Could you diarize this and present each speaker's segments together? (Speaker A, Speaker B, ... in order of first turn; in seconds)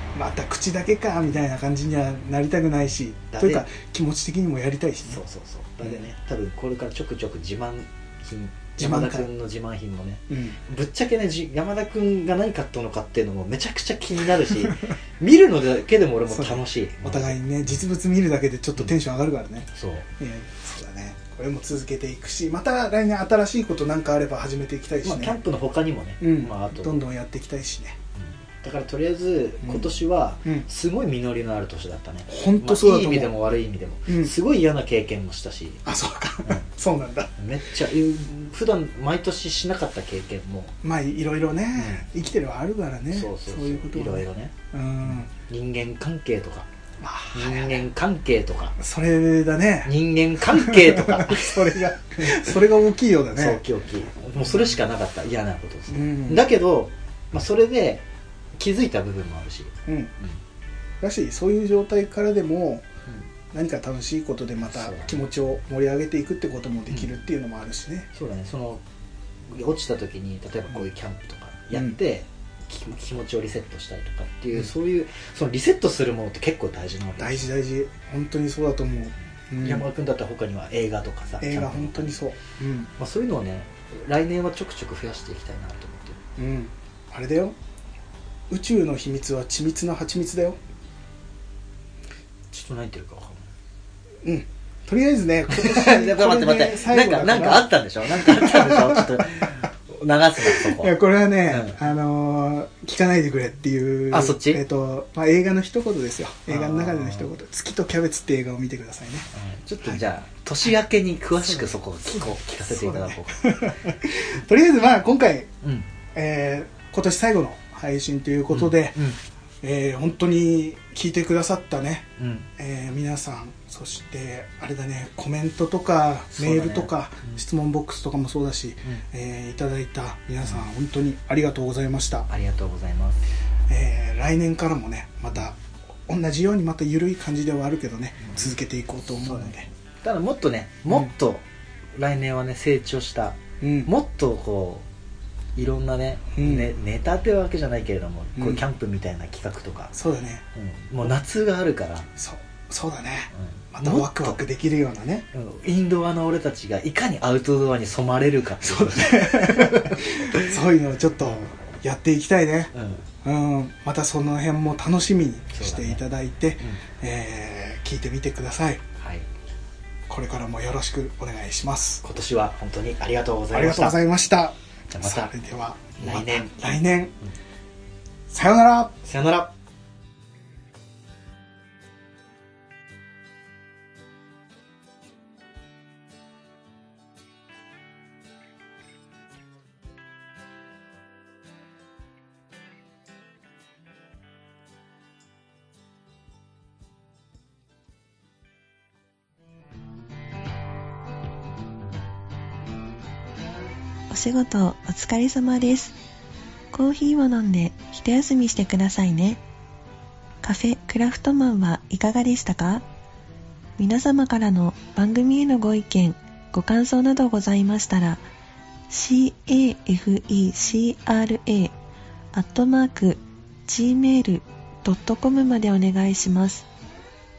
Speaker A: 0.1-5.2, 8.8-9.3, 10.3-10.6, 14.6-14.9, 16.3-25.4, 26.2-28.0, 29.6-29.9, 32.3-33.3, 34.1-34.3, 35.9-37.3, 40.8-45.3, 47.0-47.9, 48.8-49.9, 50.5-53.6, 54.4-54.7, 55.9-56.5, 59.9-60.1, 61.0-62.9, 63.5-68.1, 77.2-79.9, 81.4-82.9, 86.4-87.5, 88.5-90.6, 94.2-99.6, 100.4-109.3, 111.4-115.5, 116.1-119.0, 119.6-132.3, 133.7-139.7, 143.6-143.9, 146.3-146.7, 148.4-148.7, 149.9-150.4, 152.2-155.2, 158.6-162.7, 163.2-168.8, 170.1-172.0, 173.5-177.1, 178.3-179.0
Speaker B: 3.3-3.7, 5.0-17.4, 19.7-20.1, 25.0-27.0, 28.2-35.8, 37.4-40.7, 41.8-42.1, 43.1-46.7, 47.3-48.8, 49.8-52.5, 53.3-58.0, 58.6-60.4, 64.6-65.2, 68.1-68.8, 69.5-77.5, 79.6-82.2, 83.0-86.2, 92.5-93.5, 95.5-100.9, 101.5-101.8, 104.1-104.6, 106.5-107.3, 109.3-113.7, 118.5-119.2, 122.2-122.5, 126.3-127.4, 132.3-133.2, 138.2-138.5, 140.0-141.4, 141.9-144.8, 145.6-149.9, 150.5-152.1, 153.3-154.4, 155.3-160.5, 161.2-161.5, 162.7-163.0, 165.5-166.0, 169.0-169.3, 172.0-174.0, 174.9-175.3, 176.0-176.5, 179.0-179.5
Speaker C: 204.1-205.9, 206.7-209.4, 210.4-212.8, 213.8-218.2, 218.9-221.7, 222.3-226.7